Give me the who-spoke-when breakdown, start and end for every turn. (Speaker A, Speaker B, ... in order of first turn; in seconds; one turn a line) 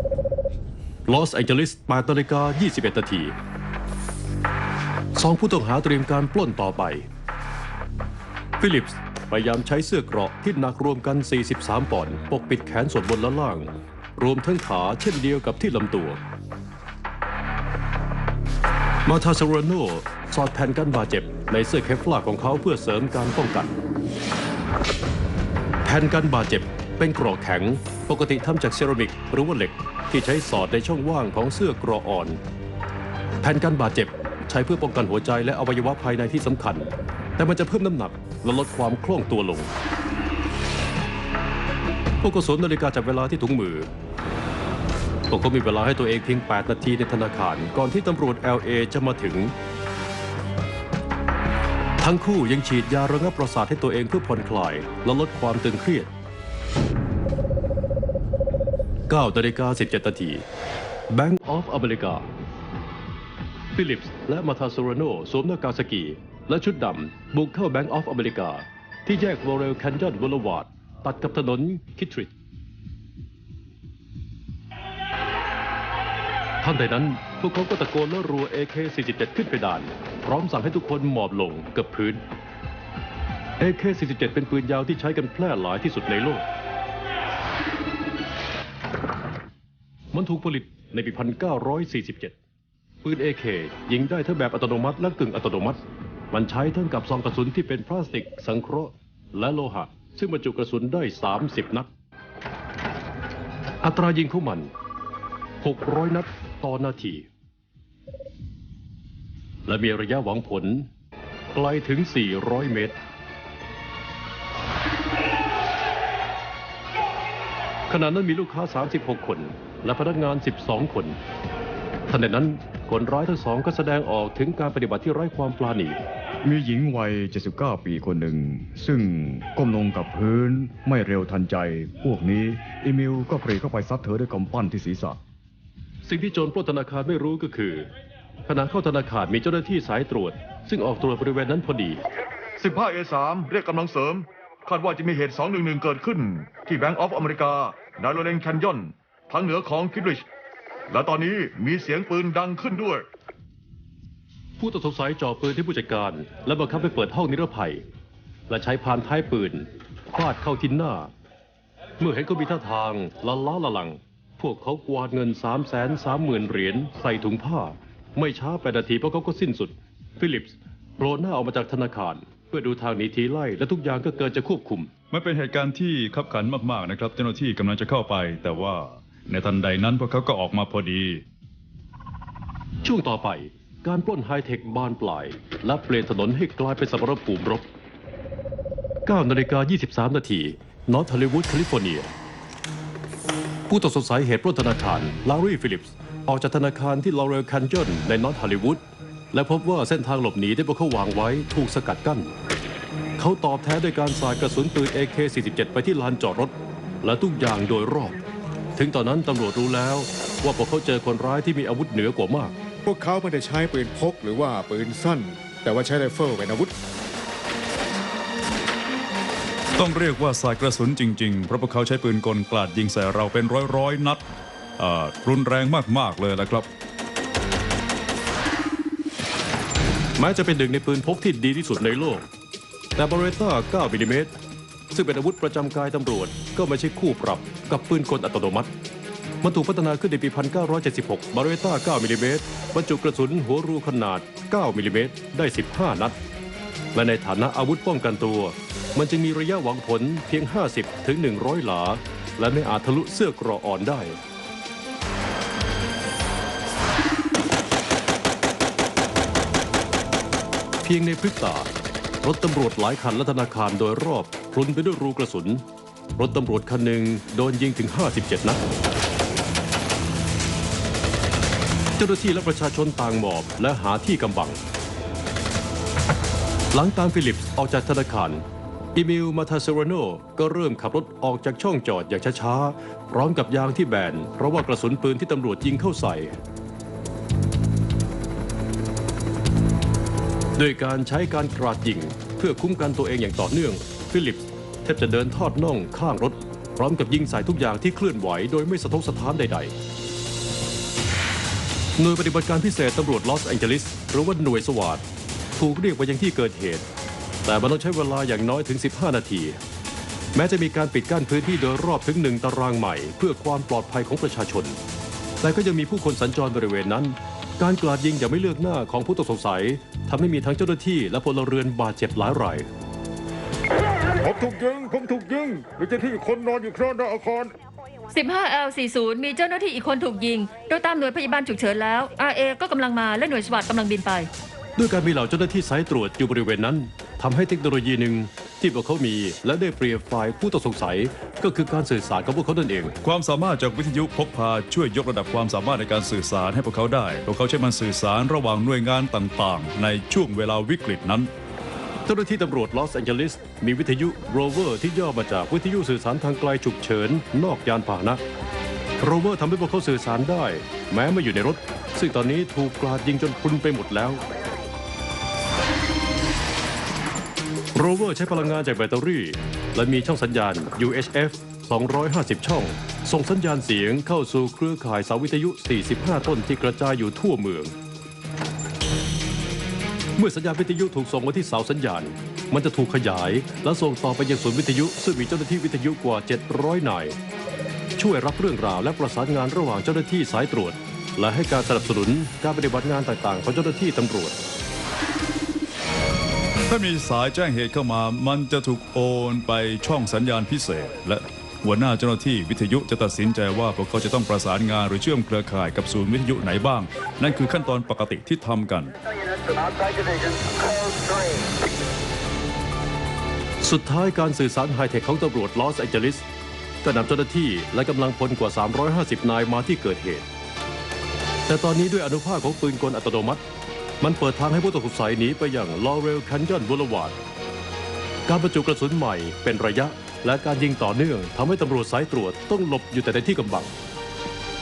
Speaker A: 1.1-3.3
Speaker A: 5.1-7.1
Speaker A: 8.6-16.2
Speaker A: 19.1-23.8
Speaker A: 25.8-32.4
Speaker A: 33.4-39.7
Speaker A: 42.2-43.9
Speaker A: 45.3-49.5
Speaker A: 52.0-56.1
Speaker A: 59.1-60.4
Speaker A: 61.1-62.3
Speaker A: 63.7-72.3
Speaker A: 76.6-82.2
Speaker A: 83.6-86.5
Speaker A: 90.1-92.3
Speaker A: 93.0-101.9
Speaker A: 103.8-104.7
Speaker A: 105.6-107.3
Speaker A: 109.7-110.9
Speaker A: 111.5-113.0
Speaker A: 117.9-121.2
Speaker A: 122.1-126.0
Speaker B: 126.4-135.2
Speaker A: 136.0-137.9
Speaker A: 138.5-142.0
Speaker C: 142.6-150.2
Speaker C: 150.9-153.1
Speaker A: 154.6-157.8
Speaker A: 158.5-161.1
Speaker A: 162.0-174.9
Speaker D: 175.1-181.2
Speaker A: 182.8-187.7
Speaker A: 189.1-192.1
Speaker A: 193.7-202.3
Speaker A: 203.2-208.2
Speaker A: 208.8-212.6
Speaker E: 212.8-216.7
Speaker D: 219.7-224.2
Speaker D: 224.8-226.7
Speaker A: 230.2-232.2
Speaker A: 232.9-234.3
Speaker A: 234.9-238.7
Speaker A: 239.4-246.2
Speaker A: 246.9-254.2
Speaker A: 260.8-261.7
Speaker A: 262.2-265.6
Speaker A: 266.2-268.6
Speaker A: 272.0-274.6
Speaker A: 276.7-278.4
Speaker A: 278.9-286.4
Speaker A: 290.6-299.8
Speaker A: 302.0-305.0
Speaker A: 305.6-306.9
Speaker A: 307.4-309.6
Speaker A: 310.4-314.8
Speaker A: 315.4-322.7
Speaker E: 324.3-325.4
Speaker E: 326.1-327.4
Speaker F: 328.1-334.3
Speaker A: 334.8-342.9
Speaker D: 343.0-351.3
Speaker A: 352.1-358.2
Speaker A: 359.0-364.2
Speaker A: 367.8-377.7
Speaker A: 380.1-387.2
Speaker A: 388.0-394.4
Speaker D: 396.7-408.9
Speaker A: 413.6-416.2
Speaker A: 416.8-420.3
Speaker A: 421.5-423.4
Speaker A: 424.0-427.1
Speaker A: 428.3-433.7